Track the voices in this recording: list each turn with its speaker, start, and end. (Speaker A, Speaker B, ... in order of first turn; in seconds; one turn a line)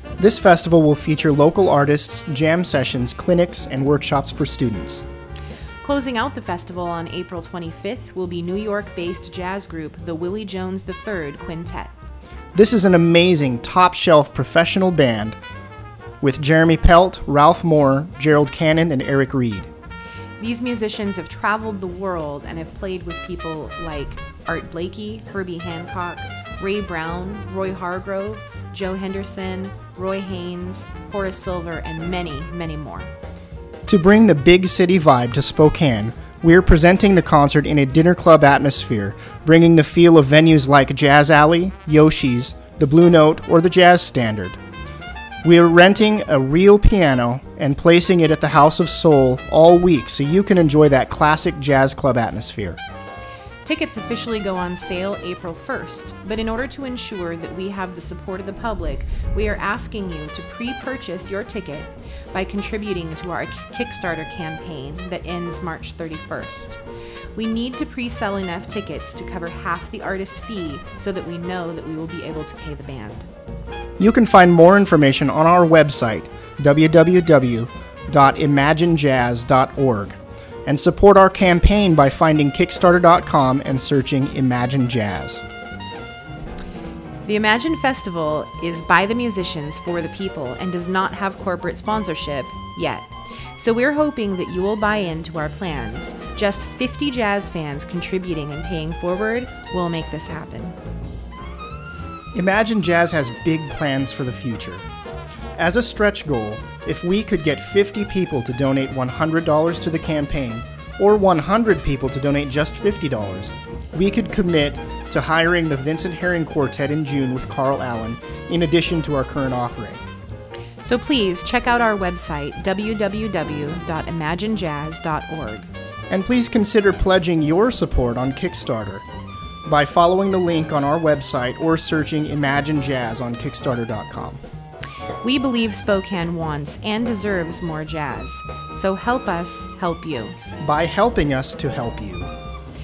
Speaker A: 0.2-5.0
Speaker B: 5.8-11.9
Speaker A: 12.5-15.4
Speaker A: 16.2-19.7
Speaker B: 20.4-33.1
Speaker A: 33.9-44.6
Speaker A: 45.4-52.8
Speaker B: 53.6-66.8
Speaker B: 67.3-73.3
Speaker A: 74.0-85.4
Speaker B: 87.2-100.8
Speaker A: 102.3-104.8
Speaker A: 105.6-120.0
Speaker B: 120.8-125.7
Speaker A: 126.1-129.1
Speaker A: 129.7-134.4
Speaker B: 135.2-140.4
Speaker A: 140.6-142.3